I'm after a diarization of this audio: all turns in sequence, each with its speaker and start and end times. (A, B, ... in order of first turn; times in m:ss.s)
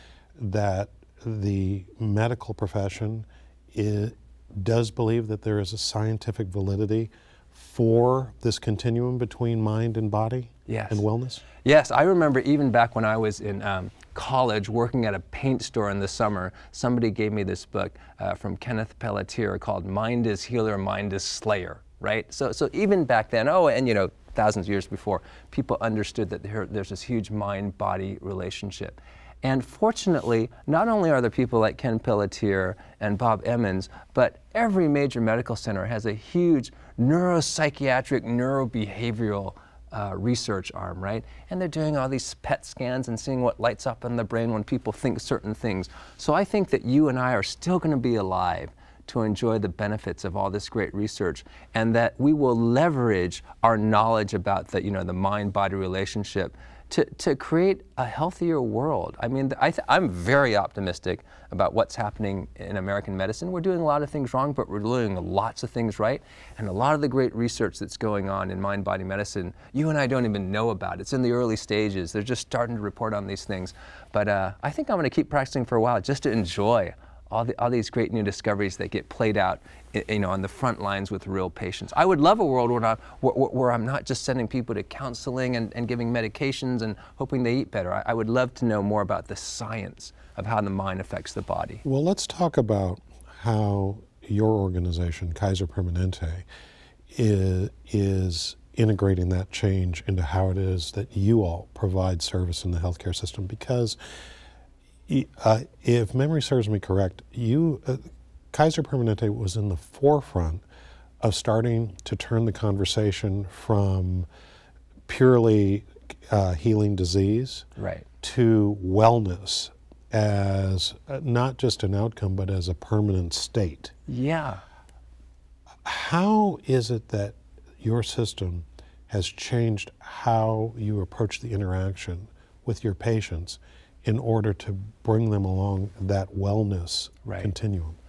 0:00.4-0:11.4 A
0:10.7-0:11.0 B
0:11.6-1:31.8 B
1:31.8-1:36.5 A
1:37.1-1:44.0 A
1:45.1-1:50.6 A
1:51.2-1:54.3 A
1:55.1-1:57.7 A
1:57.8-1:58.0 B
1:58.2-2:03.9 A
2:04.1-2:04.6 B
2:05.8-2:18.0 A
2:17.2-2:17.5 B